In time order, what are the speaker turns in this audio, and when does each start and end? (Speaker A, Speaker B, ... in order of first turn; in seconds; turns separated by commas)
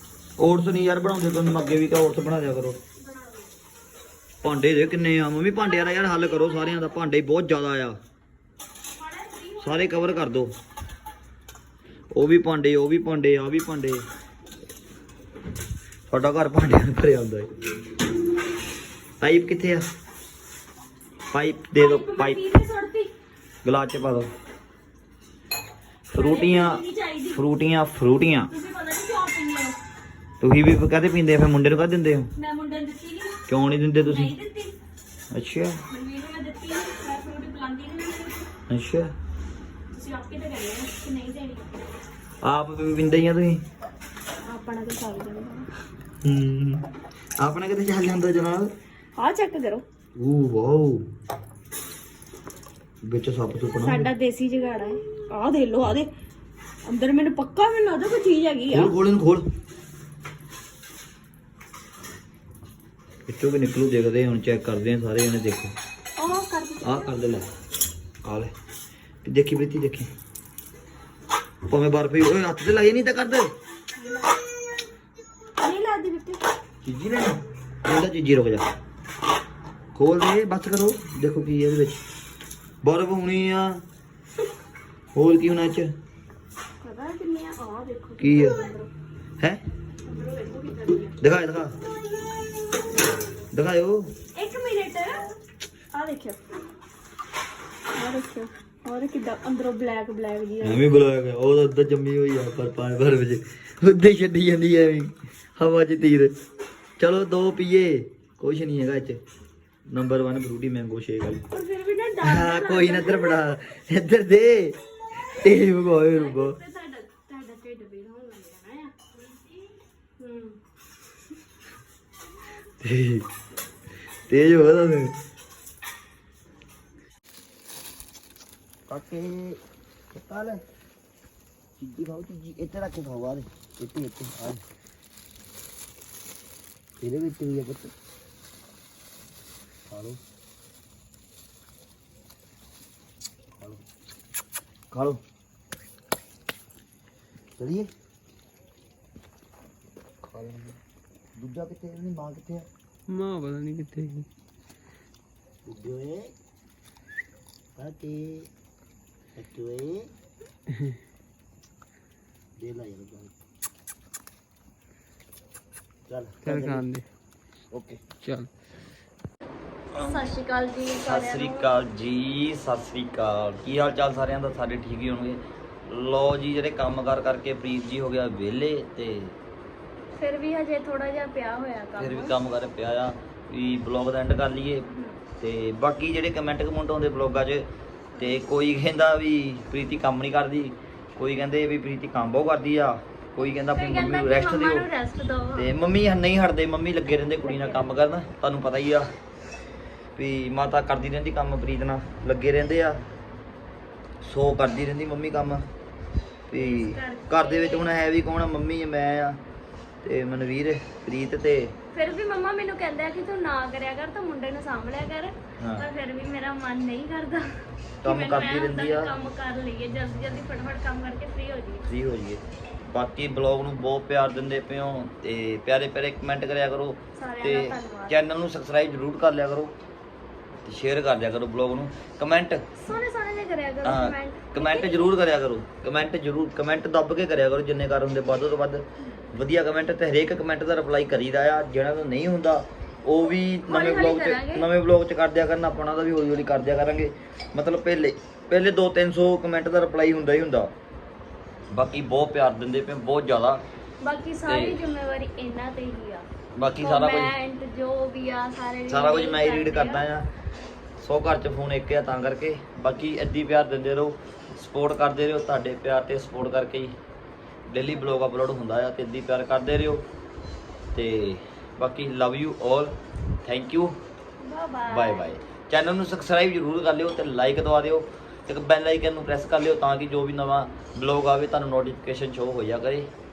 Speaker A: 0.4-2.8, Speaker B: 3.0-3.5, Speaker A: 4.4-8.0, Speaker B: 5.5-7.1, Speaker B: 9.0-10.4, Speaker A: 9.6-10.5, Speaker A: 12.1-14.0, Speaker A: 16.1-17.5, Speaker A: 19.2-19.9, Speaker A: 21.3-22.4, Speaker B: 21.8-23.1, Speaker A: 23.6-24.3, Speaker A: 26.1-28.5, Speaker B: 26.2-27.4, Speaker B: 28.5-29.8, Speaker A: 30.4-32.3, Speaker B: 32.4-33.4, Speaker A: 33.5-34.3, Speaker B: 34.0-34.8, Speaker A: 35.3-35.8, Speaker B: 35.9-38.5, Speaker A: 38.7-39.1, Speaker B: 39.9-41.7, Speaker A: 42.4-43.6, Speaker B: 44.5-45.7, Speaker A: 46.2-46.9, Speaker A: 47.4-48.7, Speaker B: 49.2-49.8, Speaker A: 50.2-51.0, Speaker A: 53.0-54.1, Speaker B: 53.8-56.1, Speaker B: 56.9-59.0, Speaker A: 58.7-59.5, Speaker A: 63.3-65.7, Speaker B: 66.2-67.1, Speaker A: 66.8-67.5, Speaker A: 68.2-68.5, Speaker A: 69.2-70.1, Speaker A: 71.7-73.5, Speaker B: 74.0-74.3, Speaker B: 75.6-76.5, Speaker A: 76.8-78.6, Speaker A: 80.0-82.0, Speaker A: 82.8-83.8, Speaker A: 85.1-85.9, Speaker B: 86.8-88.9, Speaker A: 88.2-88.6, Speaker B: 90.0-91.2, Speaker A: 91.2-91.8, Speaker A: 93.5-94.1, Speaker B: 94.3-95.2, Speaker B: 95.9-96.4, Speaker B: 97.9-100.8, Speaker A: 100.6-106.3, Speaker A: 107.0-109.2, Speaker A: 109.9-111.4, Speaker B: 111.5-113.5, Speaker A: 112.2-114.8, Speaker B: 115.3-120.6, Speaker A: 115.4-116.6, Speaker A: 122.8-123.2, Speaker A: 124.3-125.1, Speaker A: 128.9-129.6, Speaker A: 130.1-130.6, Speaker A: 131.8-134.6, Speaker A: 137.0-137.9, Speaker A: 139.9-140.2, Speaker A: 144.9-145.2, Speaker A: 147.6-147.9, Speaker A: 150.2-150.8, Speaker A: 151.4-152.7, Speaker C: 153.1-154.3, Speaker A: 155.7-156.3, Speaker A: 157.8-158.5, Speaker A: 159.4-160.1, Speaker A: 162.6-163.3, Speaker A: 166.1-166.9, Speaker C: 166.4-167.1, Speaker A: 167.7-168.0, Speaker C: 168.2-168.5, Speaker B: 170.0-171.7, Speaker A: 171.1-179.4, Speaker B: 180.2-182.3, Speaker A: 182.0-184.8, Speaker B: 184.9-185.2, Speaker A: 185.4-194.9, Speaker B: 193.7-195.7, Speaker A: 195.6-199.1, Speaker B: 197.4-197.9, Speaker A: 200.2-203.0, Speaker A: 204.2-205.6, Speaker A: 206.5-209.4, Speaker B: 206.5-207.9, Speaker A: 210.0-211.7, Speaker B: 211.9-217.4, Speaker A: 215.6-215.9, Speaker A: 218.0-219.2, Speaker B: 218.0-221.9, Speaker A: 221.9-229.7, Speaker B: 227.2-228.2, Speaker A: 230.7-232.6, Speaker B: 232.8-235.2, Speaker A: 233.8-250.7, Speaker B: 243.7-244.7, Speaker A: 251.7-253.6, Speaker B: 254.0-256.3, Speaker A: 254.5-254.8, Speaker A: 256.6-257.3, Speaker B: 256.8-260.1, Speaker A: 258.9-260.3, Speaker A: 261.0-266.9, Speaker A: 267.7-270.1, Speaker A: 270.9-272.9, Speaker A: 273.4-274.0, Speaker B: 274.4-275.3, Speaker A: 274.9-283.1